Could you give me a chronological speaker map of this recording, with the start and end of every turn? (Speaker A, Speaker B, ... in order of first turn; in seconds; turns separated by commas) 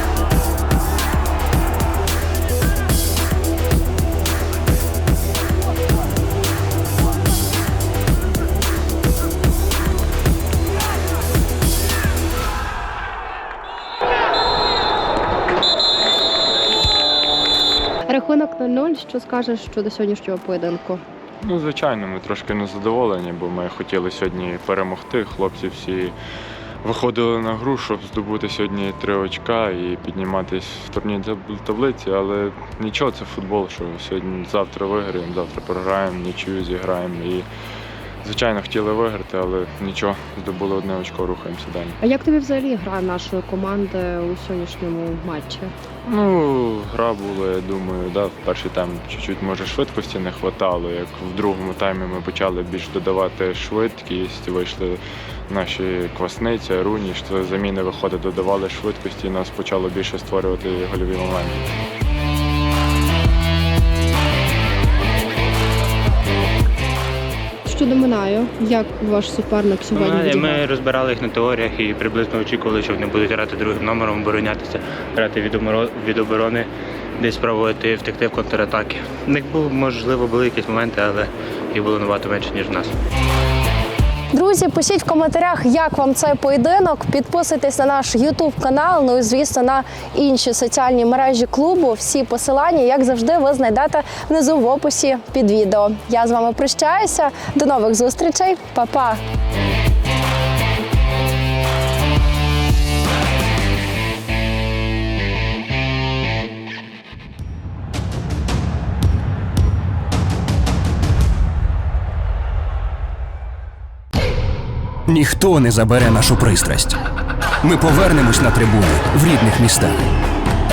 Speaker A: 18.1-21.0, Speaker B: 21.4-26.1, Speaker B: 26.8-37.5, Speaker B: 38.2-42.0, Speaker A: 42.0-45.7, Speaker B: 46.1-61.7, Speaker A: 67.7-70.7, Speaker C: 69.9-82.9, Speaker A: 84.3-99.2, Speaker D: 115.1-117.0, Speaker D: 117.6-120.0